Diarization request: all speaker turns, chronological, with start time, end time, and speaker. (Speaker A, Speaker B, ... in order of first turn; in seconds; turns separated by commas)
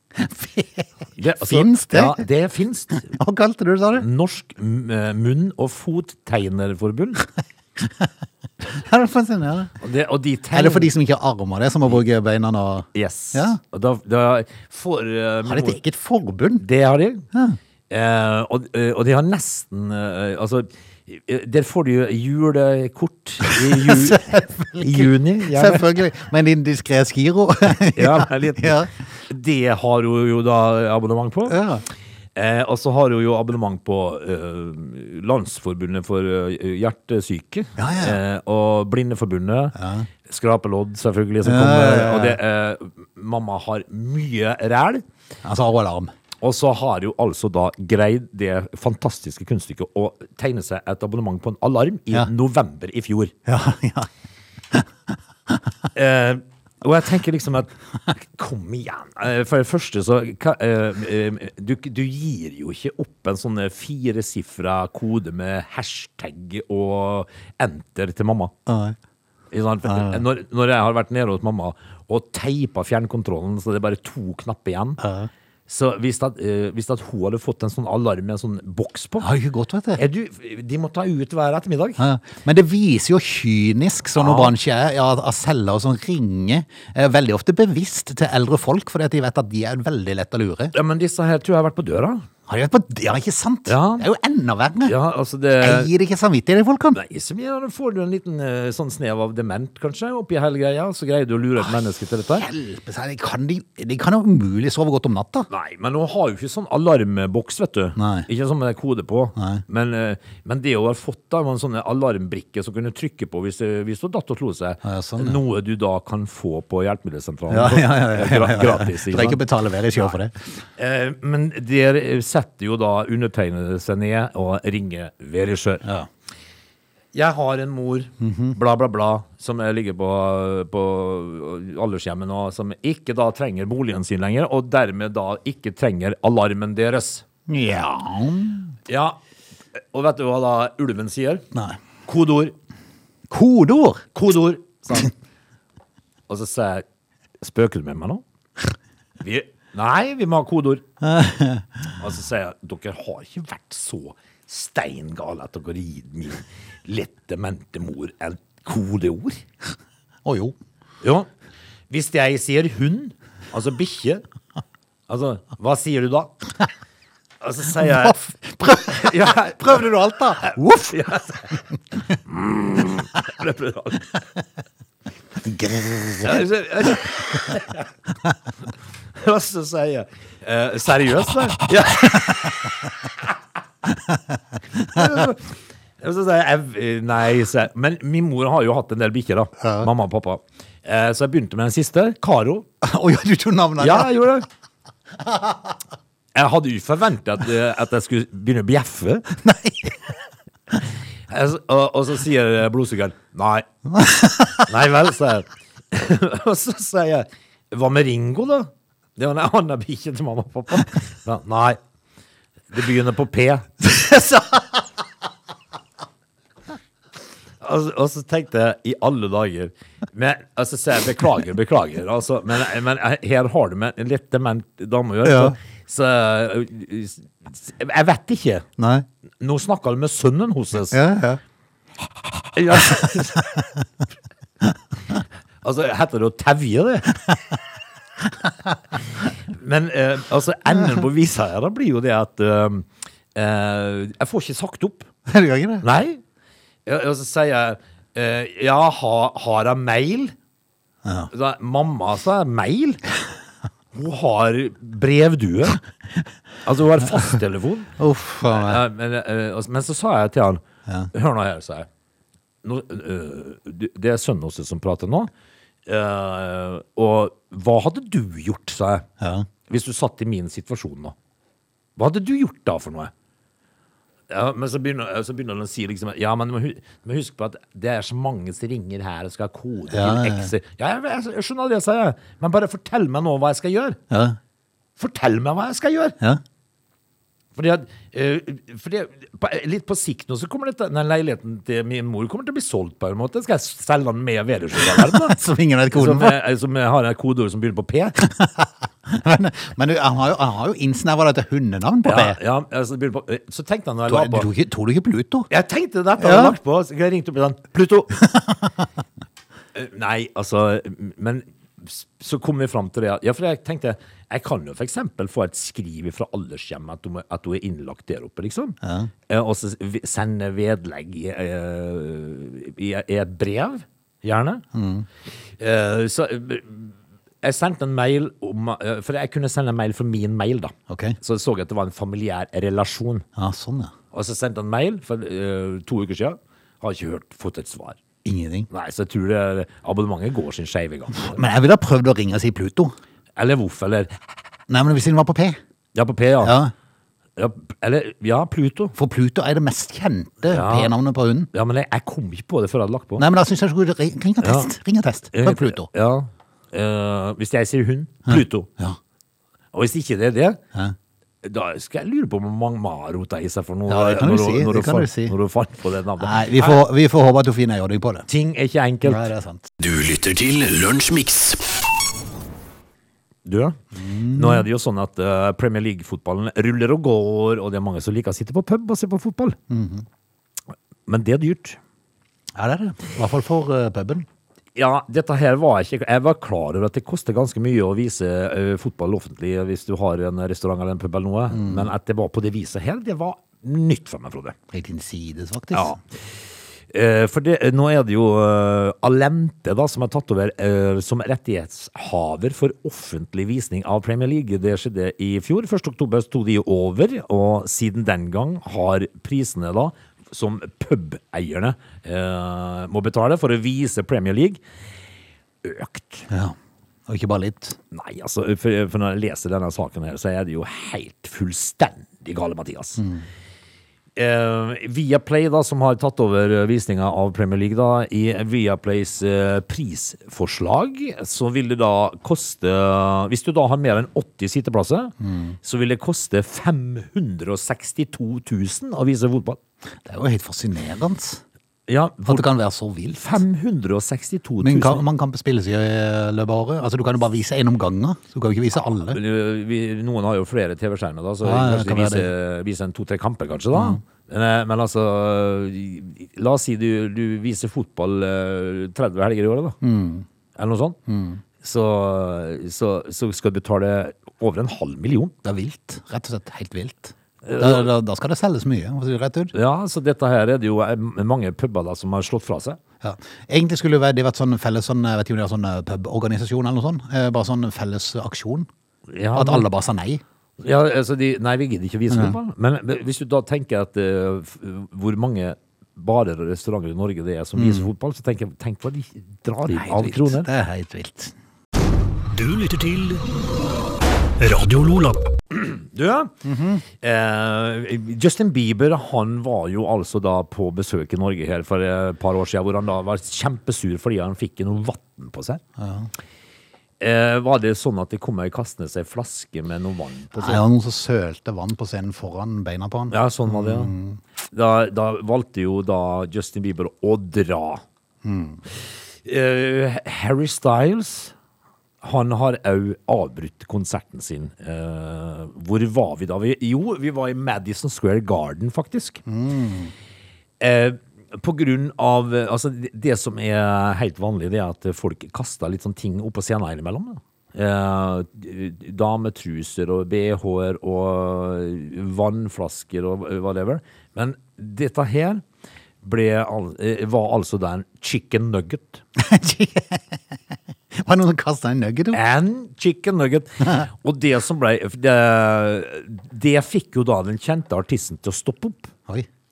Speaker A: 0.1-2.2, Speaker B: 1.2-3.0, Speaker A: 2.9-4.0, Speaker B: 4.0-7.2, Speaker A: 7.8-8.1, Speaker A: 8.7-9.7, Speaker B: 9.8-10.9, Speaker A: 10.5-13.6, Speaker B: 12.9-15.8, Speaker A: 15.4-16.6, Speaker B: 16.6-17.3, Speaker A: 17.3-17.6, Speaker B: 17.9-26.0, Speaker A: 23.4-28.9, Speaker B: 27.9-31.6, Speaker A: 31.5-31.8, Speaker B: 32.4-45.0, Speaker A: 37.8-38.2, Speaker A: 39.7-40.1, Speaker A: 41.4-42.4, Speaker A: 45.4-46.1, Speaker B: 46.4-53.3, Speaker A: 53.5-54.1, Speaker B: 55.9-68.5, Speaker A: 68.7-69.0, Speaker B: 69.5-75.0, Speaker A: 69.8-70.2, Speaker A: 75.0-75.3, Speaker B: 75.7-79.3, Speaker A: 79.2-80.0, Speaker B: 80.0-82.0, Speaker A: 82.0-90.7, Speaker B: 84.2-84.5, Speaker B: 90.7-92.2, Speaker A: 92.5-94.9, Speaker B: 93.7-94.1, Speaker B: 94.8-95.9, Speaker A: 95.6-97.0, Speaker B: 96.9-102.4, Speaker A: 102.3-105.5, Speaker B: 105.5-119.4, Speaker A: 108.0-108.3, Speaker A: 109.4-109.6, Speaker A: 114.8-115.4, Speaker A: 117.5-120.5, Speaker B: 120.8-125.8, Speaker B: 127.1-137.2, Speaker A: 128.2-128.6, Speaker A: 137.5-138.8, Speaker B: 138.9-139.2, Speaker B: 139.8-141.4, Speaker B: 142.1-142.5, Speaker A: 143.3-144.1, Speaker B: 144.1-145.1, Speaker B: 146.3-146.8, Speaker B: 147.4-148.2, Speaker B: 149.2-150.8, Speaker A: 151.0-151.8, Speaker B: 152.0-159.4, Speaker A: 160.2-160.5, Speaker B: 161.0-161.3, Speaker B: 161.9-164.2, Speaker B: 165.1-166.3, Speaker B: 167.4-169.9, Speaker A: 167.8-171.1, Speaker B: 170.4-171.6, Speaker B: 172.2-174.2, Speaker A: 175.4-176.4, Speaker B: 176.2-177.9, Speaker B: 179.1-183.3, Speaker B: 184.8-185.5, Speaker B: 186.0-192.7, Speaker A: 189.6-189.9, Speaker A: 192.8-194.3, Speaker B: 193.8-194.4, Speaker A: 195.2-195.7, Speaker B: 196.3-199.3, Speaker A: 199.4-199.9, Speaker B: 201.3-203.7, Speaker A: 203.9-204.6, Speaker B: 204.6-211.8, Speaker B: 212.7-213.8, Speaker A: 213.9-214.6, Speaker B: 217.6-228.7, Speaker A: 225.2-225.6, Speaker A: 228.8-229.1, Speaker B: 229.4-231.0, Speaker A: 230.9-231.4, Speaker B: 232.5-233.7, Speaker B: 235.6-237.3, Speaker B: 239.2-245.1, Speaker A: 245.3-245.8, Speaker B: 245.8-246.2, Speaker B: 246.8-250.3, Speaker A: 251.0-251.3, Speaker B: 251.3-253.0, Speaker B: 253.9-255.8, Speaker B: 256.6-260.6, Speaker A: 258.0-258.8, Speaker B: 261.1-261.9, Speaker B: 262.6-265.3, Speaker B: 265.9-269.1, Speaker A: 269.2-269.5, Speaker B: 269.7-271.1, Speaker B: 272.0-273.1, Speaker B: 274.3-284.0, Speaker A: 279.9-280.5, Speaker A: 284.1-284.4, Speaker B: 285.0-286.2, Speaker B: 287.5-295.4, Speaker A: 294.8-296.4, Speaker B: 295.9-298.2, Speaker A: 298.2-302.4, Speaker B: 302.0-304.5, Speaker A: 304.1-305.5, Speaker B: 305.5-308.2, Speaker A: 306.2-306.5, Speaker A: 308.2-308.9, Speaker B: 309.7-318.8, Speaker A: 318.8-319.1, Speaker B: 319.3-324.6, Speaker A: 324.7-325.1, Speaker B: 325.6-333.2, Speaker A: 330.9-331.2, Speaker A: 333.4-333.9, Speaker B: 334.1-338.0, Speaker A: 338.2-338.7, Speaker B: 338.7-341.4, Speaker A: 341.1-342.9, Speaker B: 343.4-344.1, Speaker A: 344.7-345.6, Speaker B: 345.9-346.5, Speaker A: 346.4-346.7, Speaker B: 347.4-348.9, Speaker A: 348.9-351.5, Speaker B: 350.5-350.9, Speaker B: 351.5-353.2, Speaker A: 353.2-355.9, Speaker B: 354.4-354.7, Speaker B: 355.3-358.7, Speaker A: 358.3-359.0, Speaker B: 359.7-360.6, Speaker B: 361.4-366.8, Speaker A: 363.9-365.3, Speaker A: 366.2-368.3, Speaker B: 368.3-369.3, Speaker A: 369.0-369.7, Speaker C: 369.8-371.6, Speaker B: 373.4-373.8, Speaker A: 373.9-374.7, Speaker B: 374.3-379.6, Speaker A: 379.7-380.0, Speaker B: 381.1-381.8, Speaker A: 382.5-384.2, Speaker B: 384.7-394.5, Speaker A: 391.5-391.9, Speaker A: 394.7-396.0, Speaker B: 395.7-396.2, Speaker B: 396.9-414.6, Speaker B: 415.6-416.3, Speaker A: 416.3-416.6, Speaker A: 417.1-417.8, Speaker B: 417.9-423.0, Speaker A: 423.0-423.2, Speaker B: 424.1-439.6, Speaker A: 435.2-435.6, Speaker A: 440.0-441.4, Speaker B: 441.9-442.5, Speaker A: 442.2-443.4, Speaker B: 443.1-445.1, Speaker A: 444.6-449.2, Speaker B: 449.1-459.8, Speaker A: 451.4-452.3, Speaker A: 453.7-454.0, Speaker A: 459.8-460.2, Speaker B: 460.5-461.0, Speaker A: 461.1-461.4, Speaker B: 461.6-465.3, Speaker A: 465.4-469.5, Speaker B: 467.4-467.9, Speaker B: 469.5-472.8, Speaker A: 473.0-478.7, Speaker B: 479.1-479.7, Speaker A: 479.3-480.2, Speaker B: 480.6-490.5, Speaker A: 482.1-482.4, Speaker A: 487.6-487.9, Speaker A: 489.7-491.3, Speaker C: 492.3-493.2, Speaker C: 494.4-495.2, Speaker B: 495.5-505.6, Speaker A: 496.4-496.8, Speaker A: 505.8-506.1, Speaker B: 507.0-510.6, Speaker A: 510.4-514.2, Speaker B: 513.1-517.8, Speaker A: 518.2-518.6, Speaker B: 518.9-521.3, Speaker B: 522.0-529.2, Speaker A: 529.3-529.9, Speaker B: 530.6-545.4, Speaker B: 546.0-549.0, Speaker A: 549.1-550.4, Speaker A: 550.9-552.2, Speaker B: 552.1-558.9